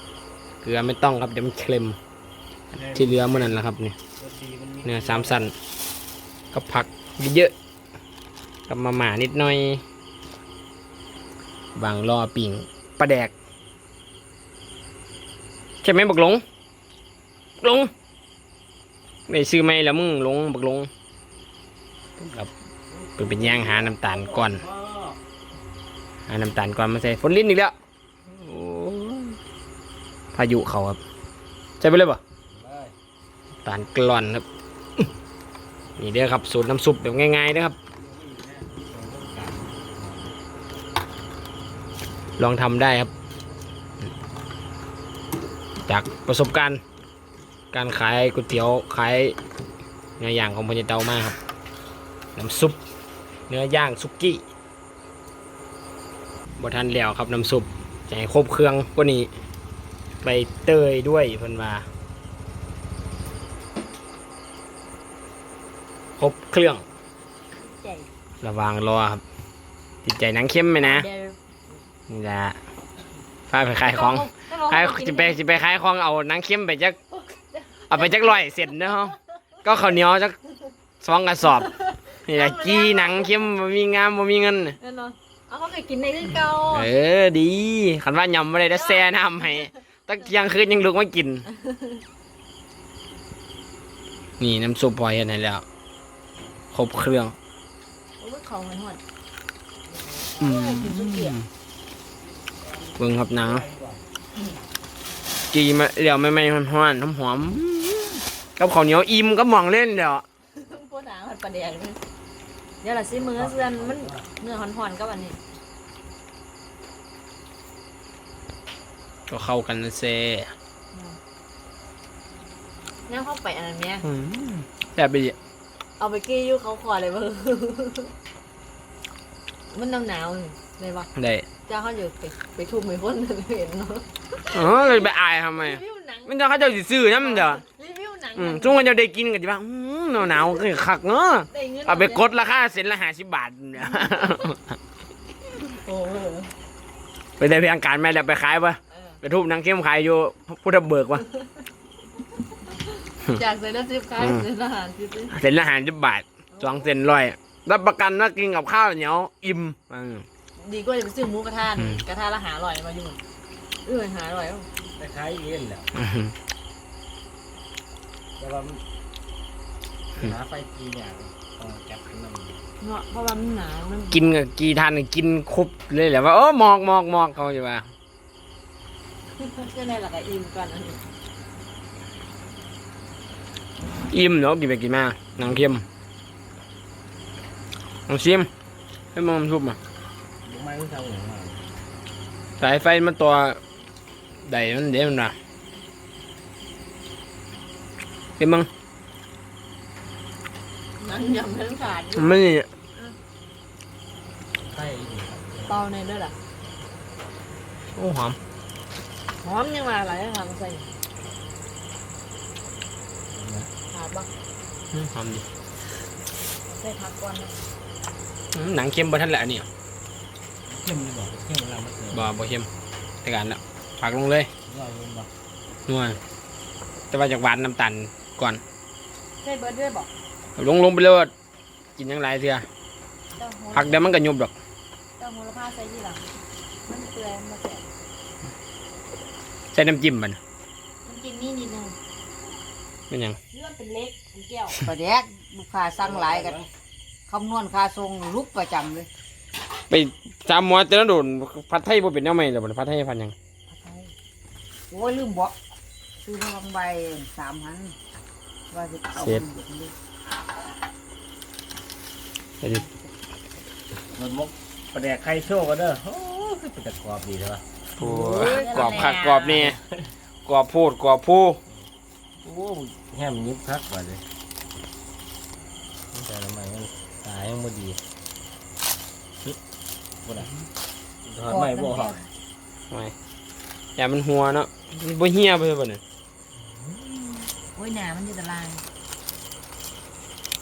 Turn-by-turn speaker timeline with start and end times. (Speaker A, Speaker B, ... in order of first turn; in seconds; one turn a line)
Speaker A: 0.6-2.0
Speaker B: 2.7-3.6
Speaker A: 2.9-4.0
Speaker B: 4.2-5.5
Speaker A: 4.8-5.5
Speaker A: 6.5-7.5
Speaker A: 8.7-9.8
Speaker A: 11.7-13.3
Speaker A: 15.8-16.4
Speaker A: 17.6-17.9
Speaker A: 19.3-20.9
Speaker A: 22.2-22.5
Speaker B: 22.9-25.2
Speaker A: 23.2-24.6
Speaker A: 26.3-27.7
Speaker A: 28.3-29.4
Speaker A: 30.3-31.0
Speaker A: 31.8-32.2
Speaker B: 32.5-32.9
Speaker A: 33.6-34.4
Speaker A: 36.0-37.8
Speaker B: 38.0-40.4
Speaker A: 42.4-43.1
Speaker A: 45.9-46.8
Speaker A: 47.7-49.4
Speaker A: 50.2-51.4
Speaker A: 52.4-52.8
Speaker A: 53.5-54.4
Speaker A: 56.6-59.3
Speaker A: 60.2-61.9
Speaker A: 66.2-66.8
Speaker C: 67.5-68.1
Speaker A: 68.4-69.2
Speaker A: 70.0-71.1
Speaker C: 70.8-71.4
Speaker A: 72.1-72.6
Speaker A: 73.5-77.0
Speaker C: 73.8-75.4
Speaker C: 77.1-78.5
Speaker A: 77.9-80.3
Speaker A: 81.0-81.7
Speaker C: 81.4-83.5
Speaker A: 82.2-84.8
Speaker C: 84.8-86.9
Speaker A: 86.7-91.5
Speaker C: 88.7-89.7
Speaker C: 91.5-92.0
Speaker A: 94.4-95.6
Speaker A: 96.7-97.3
Speaker C: 98.2-99.0
Speaker C: 99.9-101.4
Speaker A: 100.4-101.4
Speaker B: 102.6-104.0
Speaker A: 103.0-103.7
Speaker A: 105.5-110.2
Speaker C: 110.5-112.0
Speaker C: 112.8-115.4
Speaker B: 113.1-114.3
Speaker A: 119.3-120.5
Speaker C: 120.9-121.2
Speaker C: 123.1-124.0
Speaker A: 124.0-125.3
Speaker C: 126.0-128.1
Speaker C: 129.7-131.1
Speaker A: 131.2-131.4
Speaker C: 131.7-138.9
Speaker A: 134.5-137.6
Speaker A: 138.3-144.6
Speaker C: 141.5-142.3
Speaker C: 145.6-146.5
Speaker A: 147.4-151.2
Speaker C: 151.3-151.6
Speaker C: 152.7-155.3
Speaker A: 154.2-154.4
Speaker A: 155.3-160.2
Speaker C: 156.5-156.9
Speaker C: 160.6-163.2
Speaker C: 163.8-164.7
Speaker B: 164.9-165.9
Speaker A: 165.9-166.3
Speaker B: 168.4-168.8
Speaker B: 170.2-172.6
Speaker C: 172.8-174.3
Speaker A: 174.1-177.9
Speaker C: 179.4-181.0
Speaker A: 184.1-185.8
Speaker A: 188.1-188.5
Speaker A: 189.1-189.8
Speaker B: 190.4-191.6
Speaker A: 192.6-193.6
Speaker A: 194.4-195.3
Speaker A: 198.4-198.7
Speaker C: 201.0-202.4
Speaker A: 202.2-202.7
Speaker B: 204.7-205.8
Speaker C: 205.7-206.3
Speaker A: 207.9-208.4
Speaker C: 209.4-210.9
Speaker B: 213.3-213.7
Speaker C: 213.9-214.3
Speaker A: 214.9-215.4
Speaker C: 216.7-217.5
Speaker A: 218.5-219.7
Speaker B: 220.7-222.3
Speaker A: 222.1-222.7
Speaker A: 223.2-224.5
Speaker B: 224.7-225.3
Speaker A: 225.9-226.2
Speaker A: 227.1-228.6
Speaker C: 229.4-230.1
Speaker A: 230.6-231.3
Speaker A: 231.9-232.7
Speaker C: 233.3-234.1
Speaker A: 233.7-234.5
Speaker C: 235.2-236.2
Speaker C: 236.9-237.8
Speaker A: 239.7-240.4
Speaker C: 241.1-241.9
Speaker A: 243.1-243.4
Speaker C: 243.5-244.8
Speaker D: 244.8-246.6
Speaker B: 246.0-246.7
Speaker D: 247.3-249.1
Speaker A: 249.9-253.3
Speaker D: 253.7-254.1
Speaker D: 254.9-255.5
Speaker D: 256.2-257.9
Speaker D: 258.7-259.9
Speaker A: 259.2-259.4
Speaker A: 262.6-262.9
Speaker B: 264.1-267.6
Speaker A: 268.0-269.8
Speaker D: 268.0-269.1
Speaker C: 268.4-269.7
Speaker B: 269.7-270.1
Speaker A: 270.4-271.6
Speaker B: 272.4-274.2
Speaker B: 276.1-278.0
Speaker B: 280.2-280.5
Speaker B: 281.2-282.2
Speaker C: 281.5-282.2
Speaker A: 284.0-286.0
Speaker C: 287.5-288.8